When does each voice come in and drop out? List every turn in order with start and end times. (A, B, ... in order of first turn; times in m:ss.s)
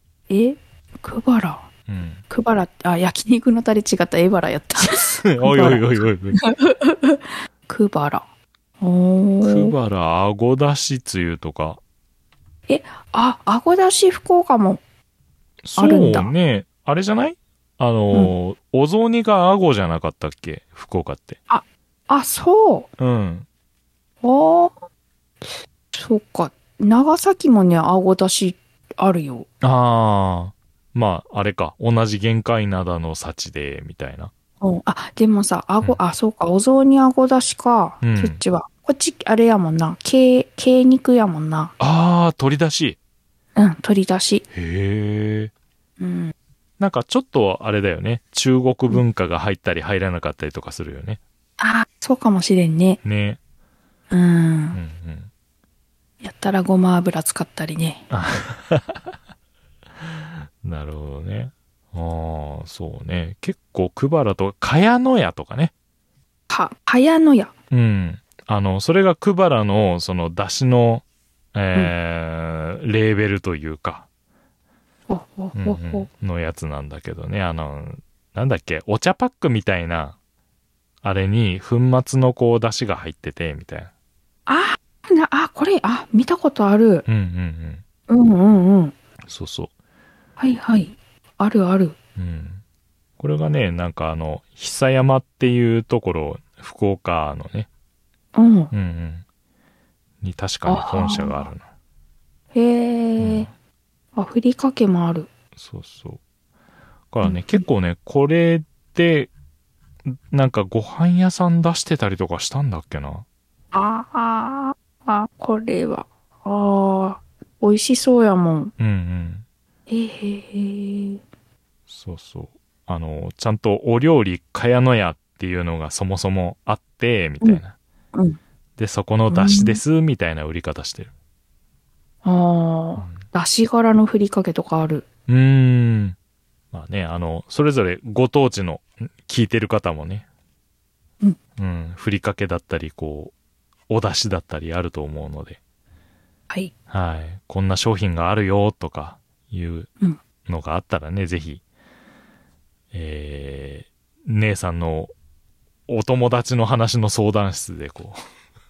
0:00.3-0:01.7 A
0:01.9-0:02.2 B
0:02.3-0:08.2 A
0:04.8-0:06.4 B
0:08.8-0:09.8 A
0:09.4-0:11.8 B
0:12.7-0:14.8 A
0:15.6-0:21.4 B
0:15.8-0:16.3 A
0:21.5-0:22.9 A
0:23.0-0:23.5 B
0:24.2-0:24.8 A
0:25.4-0:29.5 A
0:29.6-0:34.3 B
0:34.6-0:41.7 A
0:38.0-0:38.4 B
0:41.8-0:43.0 B
0:43.6-0:44.5 A
0:44.5-0:45.5 B
0:46.0-0:46.3 A
0:46.8-0:51.2 B
0:51.6-0:53.0 A
0:53.0-0:53.4 B
0:54.1-0:54.8 A
0:54.7-0:55.3 B
0:56.2-0:58.1 A
0:58.1-0:59.0 B
1:00.0-1:05.7 B
1:06.5-1:07.5 A
1:07.7-1:14.1 B
1:15.1-1:16.1 A
1:15.6-1:20.2 B
1:21.0-1:23.9 B
1:24.5-1:27.1 A
1:27.1-1:27.8 B
1:28.1-1:29.0 A
1:29.2-1:29.7 B
1:30.4-1:32.0 A
1:32.2-1:32.6 B
1:33.2-1:37.7 B
1:38.4-1:38.7 A
1:38.7-1:39.2 B
1:40.2-1:41.6 B
1:40.7-1:41.4 A
1:42.5-1:43.5 A
1:43.2-1:43.5 B
1:44.2-1:45.3 A
1:45.6-1:46.2 B
1:47.1-1:49.3 B
1:47.2-1:47.6 A
1:50.0-1:53.2 B
1:53.7-1:58.7 A
1:58.8-1:59.4 B
1:59.9-2:01.2 A
2:01.9-2:07.7 B
2:08.8-2:11.1 B
2:09.3-2:09.8 A
2:12.2-2:15.1 A
2:15.3-2:16.2 B
2:16.7-2:20.2 B
2:21.6-2:23.3 B
2:23.9-2:25.6 B
2:26.9-2:29.9 B
2:30.5-2:31.6 B
2:32.9-2:35.1 B
2:35.9-2:38.2 B